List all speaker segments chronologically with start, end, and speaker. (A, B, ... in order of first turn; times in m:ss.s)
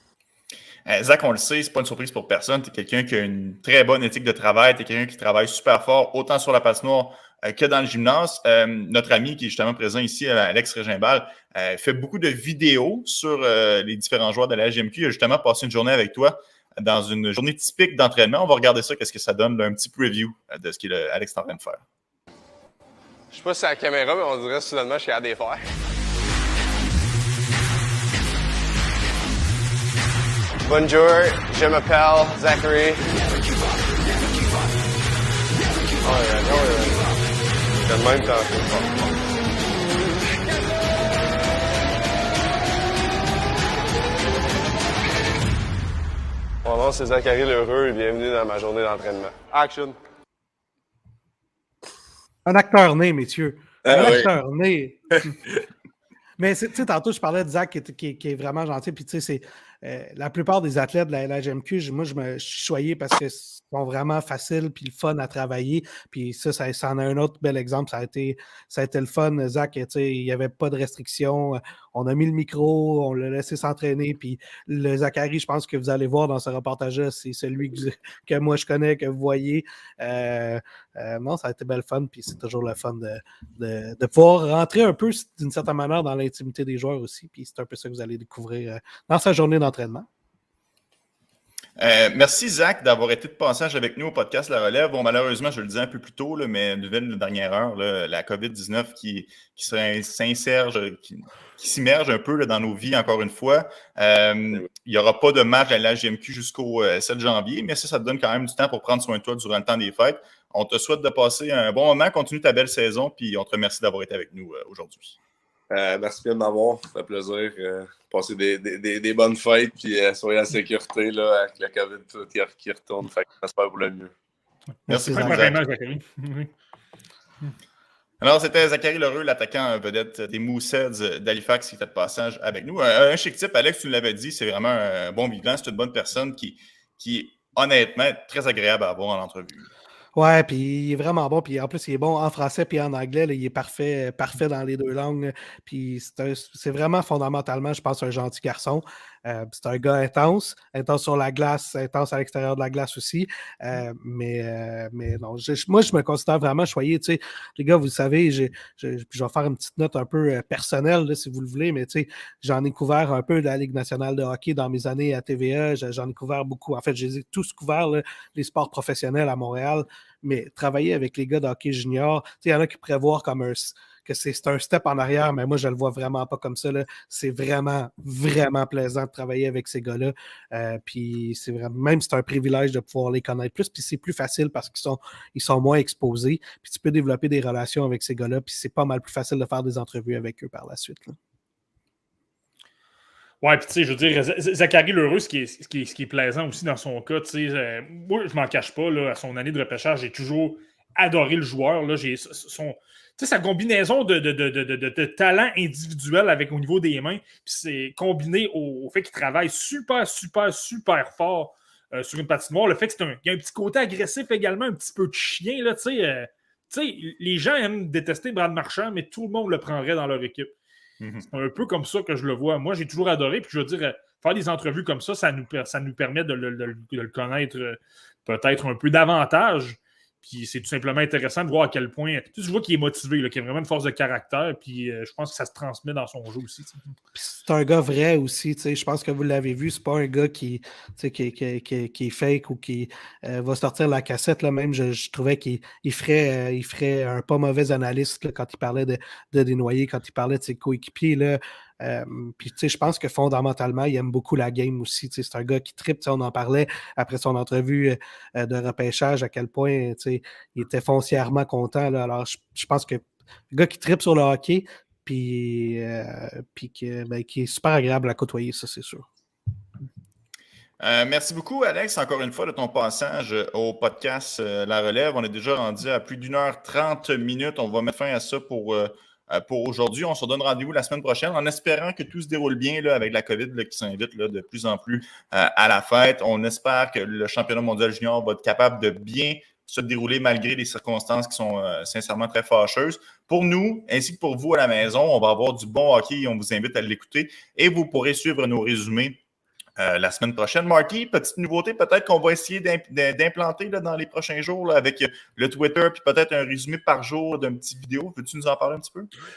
0:00.8-0:21.8 A
0:23.3-0:25.6 B
0:30.6-0:33.0 B
0:36.0-0:37.0 B
0:37.8-0:39.2 B
0:46.6-0:50.0 B
0:52.4-0:55.0 C
0:53.8-0:54.3 D
0:55.1-0:55.6 D
0:56.4-1:30.1 C
1:31.8-1:55.2 A
1:55.7-2:04.1 D
2:04.9-2:05.5 C
2:04.9-2:05.6 A
2:04.9-2:06.5 E
2:08.2-2:19.7 A
2:20.2-3:11.1 C
3:13.4-3:40.5 E
3:41.0-3:41.2 A
3:41.3-3:56.8 E
3:57.2-4:29.1 C
4:30.8-4:59.2 A
4:59.8-5:09.1 A